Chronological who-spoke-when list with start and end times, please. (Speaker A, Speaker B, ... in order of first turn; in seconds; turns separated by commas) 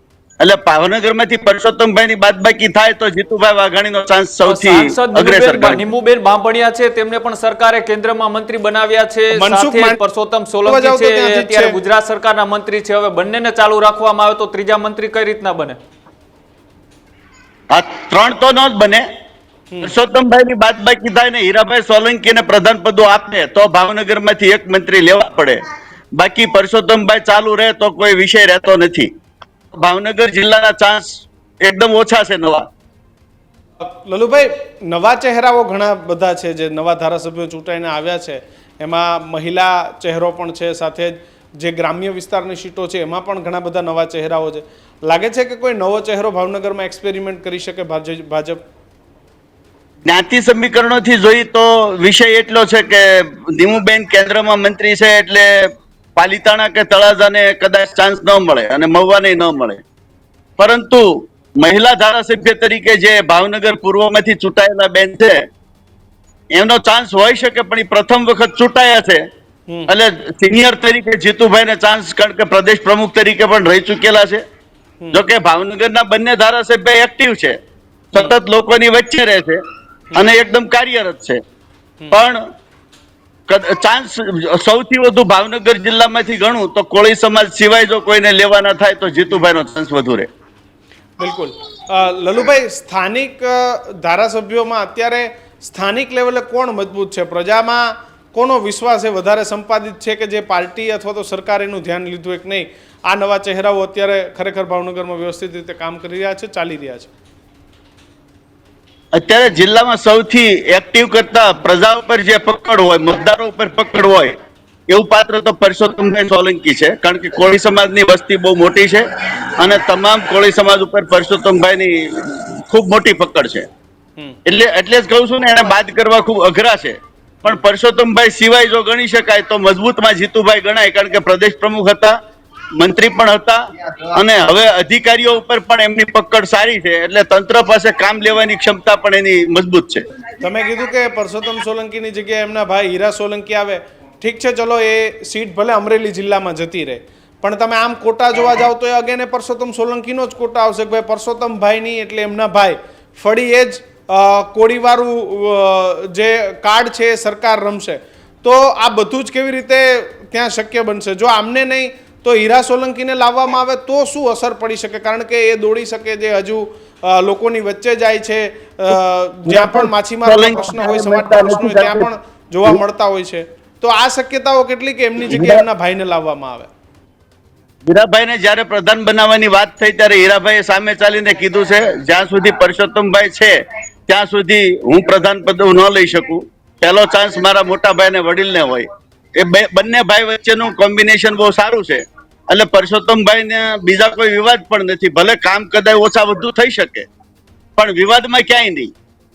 Speaker A: 0.4-5.8, Speaker B: 4.4-15.8, Speaker C: 9.3-10.0, Speaker C: 10.7-11.8, Speaker A: 17.7-19.1, Speaker A: 19.8-25.6, Speaker A: 26.2-29.1, Speaker A: 29.8-32.7, Speaker C: 33.8-48.6, Speaker A: 50.1-55.5, Speaker A: 56.2-59.8, Speaker A: 60.6-65.5, Speaker A: 66.5-69.2, Speaker A: 69.9-74.4, Speaker A: 75.1-77.6, Speaker A: 78.1-79.6, Speaker A: 80.2-81.4, Speaker A: 82.1-82.4, Speaker A: 83.5-90.3, Speaker C: 91.2-107.1, Speaker A: 109.2-114.3, Speaker A: 114.9-119.0, Speaker A: 119.6-123.7, Speaker A: 124.5-132.2, Speaker A: 132.8-140.0, Speaker C: 140.4-176.7, Speaker A: 169.5-172.1, Speaker A: 175.2-175.6, Speaker A: 177.9-197.1, Speaker A: 197.8-198.9